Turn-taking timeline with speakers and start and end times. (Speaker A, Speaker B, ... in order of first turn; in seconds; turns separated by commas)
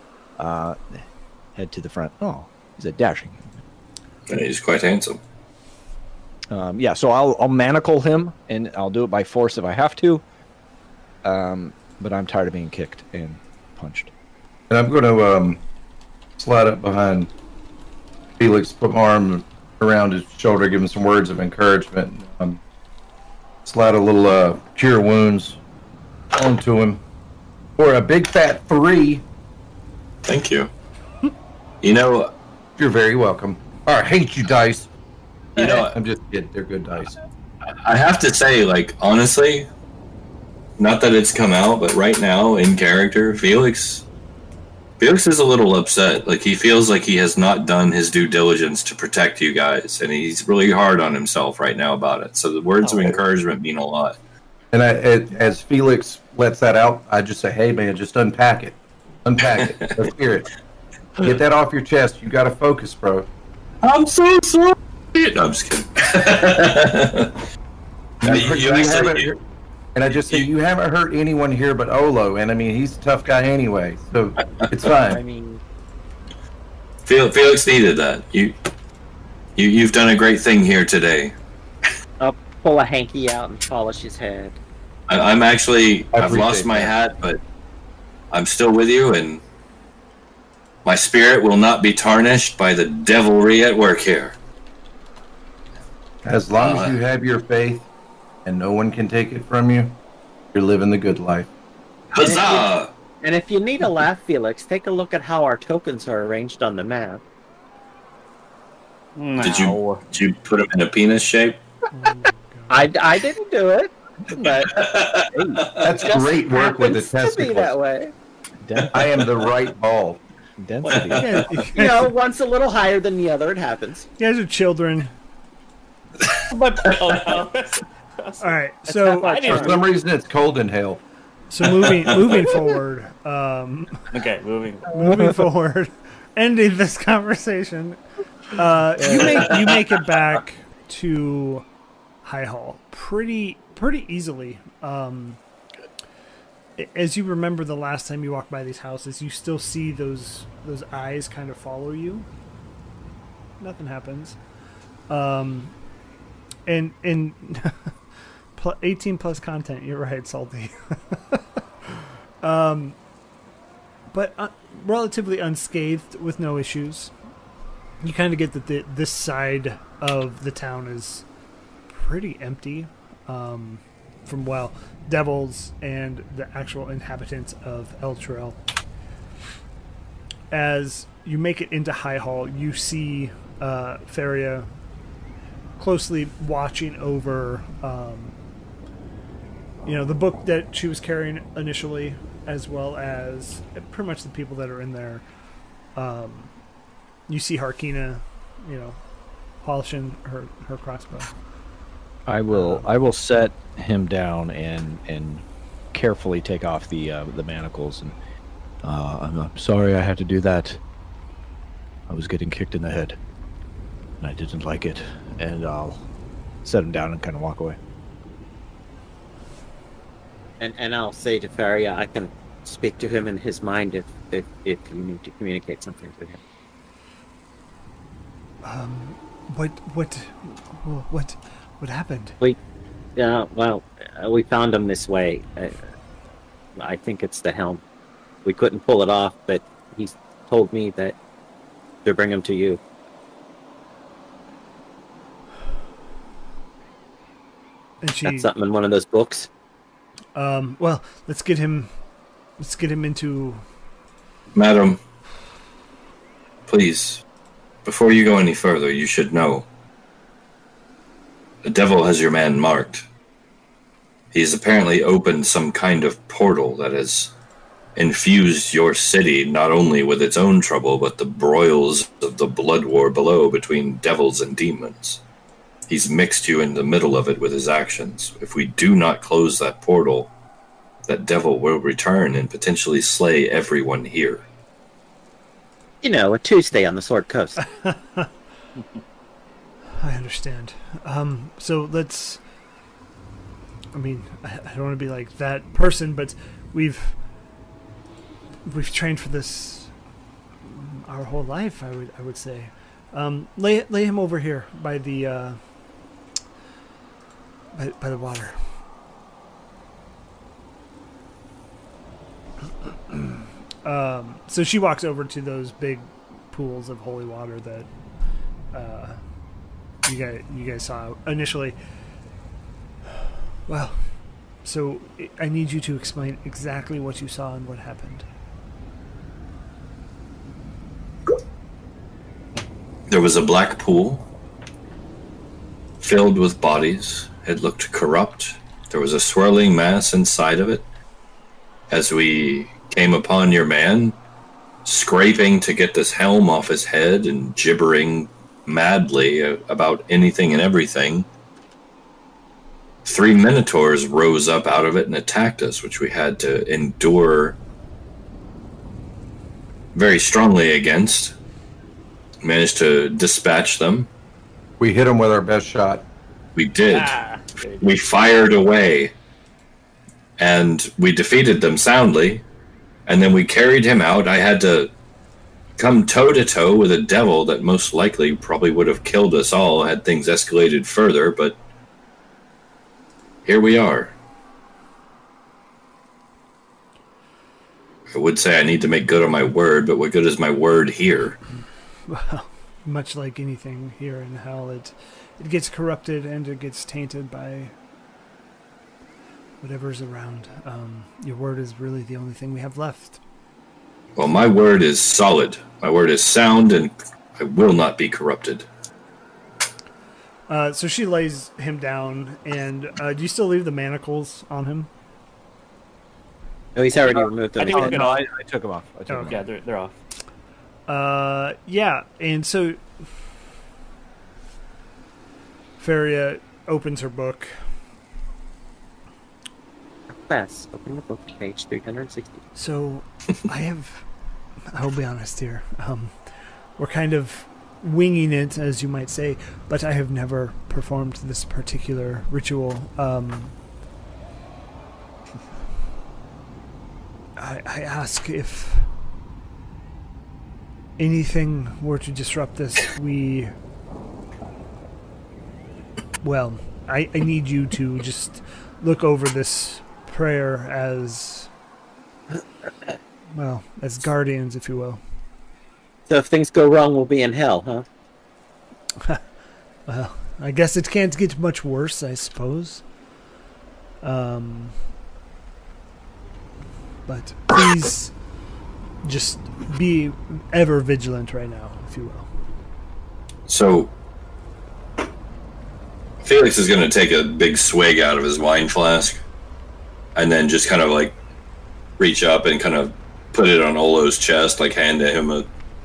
Speaker A: 0.4-3.6, Speaker B: 4.3-5.2, Speaker A: 6.5-10.2, Speaker A: 11.2-14.1, Speaker C: 14.7-15.6, Speaker C: 16.4-17.3, Speaker C: 18.4-22.6, Speaker C: 23.6-25.6, Speaker C: 26.3-27.0, Speaker C: 27.8-29.2, Speaker B: 30.2-30.7, Speaker B: 31.8-32.3, Speaker C: 32.8-34.9, Speaker B: 35.6-36.0, Speaker C: 35.6-37.1, Speaker B: 37.9-39.7, Speaker B: 40.8-44.0, Speaker B: 45.0-54.1, Speaker C: 54.7-60.5, Speaker B: 59.5-60.0, Speaker C: 61.2-63.3, Speaker B: 63.8-67.4, Speaker C: 68.2-69.4, Speaker B: 68.2-69.3, Speaker C: 69.9-75.2, Speaker B: 74.4-74.7, Speaker D: 75.0-75.6, Speaker B: 77.0-78.5, Speaker B: 79.6-81.3, Speaker D: 82.2-84.6, Speaker B: 85.1-87.4, Speaker C: 86.1-86.9, Speaker B: 88.3-89.4, Speaker B: 90.8-94.3, Speaker C: 96.2-97.9, Speaker B: 96.6-97.0, Speaker C: 98.4-100.0, Speaker C: 100.5-101.5, Speaker B: 102.1-102.9, Speaker D: 102.2-102.7, Speaker D: 103.2-107.2, Speaker E: 109.2-110.0, Speaker B: 109.4-111.6, Speaker F: 111.9-112.9, Speaker D: 112.7-114.8, Speaker B: 114.7-115.8, Speaker A: 115.2-115.7, Speaker C: 115.8-117.7, Speaker D: 116.0-118.1, Speaker A: 118.6-119.2, Speaker C: 118.9-120.2, Speaker A: 120.6-121.6, Speaker F: 121.2-122.1, Speaker D: 121.7-124.1, Speaker F: 124.2-125.1, Speaker E: 126.5-129.8, Speaker F: 128.4-129.8, Speaker D: 129.2-129.8, Speaker C: 129.5-131.0, Speaker F: 131.5-134.1, Speaker E: 134.1-134.9, Speaker F: 134.9-138.0, Speaker A: 135.1-135.3, Speaker F: 138.5-141.7, Speaker F: 142.2-145.4, Speaker F: 146.8-152.3, Speaker F: 153.6-154.4, Speaker F: 155.1-155.7, Speaker F: 156.7-157.9, Speaker F: 158.6-161.4, Speaker F: 162.4-162.9, Speaker F: 164.1-167.1, Speaker F: 168.0-171.2, Speaker F: 171.9-178.6, Speaker F: 180.5-184.7, Speaker F: 185.8-188.4, Speaker F: 189.8-195.2, Speaker F: 195.9-196.5, Speaker F: 197.3-199.0, Speaker F: 199.6-201.3, Speaker A: 202.3-208.2, Speaker F: 202.5-202.9, Speaker A: 208.8-210.8, Speaker A: 212.1-213.2, Speaker A: 214.2-216.0, Speaker A: 216.6-217.8, Speaker D: 220.6-226.4, Speaker F: 228.6-232.4, Speaker D: 233.2-235.7, Speaker D: 236.8-237.8, Speaker D: 238.4-241.2, Speaker D: 242.1-242.8, Speaker F: 248.0-248.5, Speaker D: 248.2-249.5, Speaker F: 250.3-251.9, Speaker F: 252.6-253.6, Speaker B: 254.5-255.0, Speaker B: 256.7-257.2, Speaker B: 257.9-259.6, Speaker B: 261.6-263.1, Speaker B: 264.3-267.3, Speaker B: 267.9-275.2, Speaker B: 275.9-280.3, Speaker B: 281.1-284.4, Speaker D: 286.0-287.6, Speaker F: 287.6-288.3, Speaker F: 290.0-292.4, Speaker F: 293.9-297.1, Speaker F: 298.6-299.9, Speaker F: 300.6-305.6, Speaker F: 307.7-308.6, Speaker F: 313.1-317.9, Speaker F: 318.7-319.2, Speaker F: 320.1-321.8, Speaker F: 323.7-324.0, Speaker F: 324.6-328.3, Speaker B: 333.1-334.2, Speaker B: 336.0-340.9, Speaker B: 341.9-344.1, Speaker B: 344.9-351.3, Speaker B: 353.1-357.6, Speaker B: 359.9-361.3, Speaker B: 362.4-364.1, Speaker C: 364.8-366.1, Speaker B: 366.6-367.1, Speaker E: 366.9-367.9, Speaker B: 367.8-369.1, Speaker B: 370.4-372.4, Speaker B: 373.1-374.9, Speaker B: 375.8-381.6, Speaker B: 383.4-384.1, Speaker B: 388.1-391.4, Speaker F: 392.1-397.7, Speaker F: 399.6-403.2, Speaker B: 404.1-408.7, Speaker F: 410.5-414.9, Speaker D: 416.8-418.1, Speaker E: 417.1-418.2, Speaker A: 417.7-419.4, Speaker F: 419.1-419.4, Speaker E: 419.2-419.9, Speaker F: 420.9-422.8, Speaker F: 425.8-427.5, Speaker D: 430.3-432.4, Speaker F: 432.6-434.1, Speaker F: 434.7-436.1, Speaker F: 436.8-443.5, Speaker F: 447.4-448.9, Speaker F: 451.0-453.5, Speaker F: 456.2-461.5, Speaker F: 463.4-465.0, Speaker D: 466.1-467.9, Speaker F: 469.9-472.8, Speaker F: 474.0-474.8, Speaker F: 477.1-478.1, Speaker F: 479.0-482.3, Speaker B: 483.5-483.9, Speaker B: 486.2-489.2, Speaker B: 490.1-491.2, Speaker B: 492.0-495.4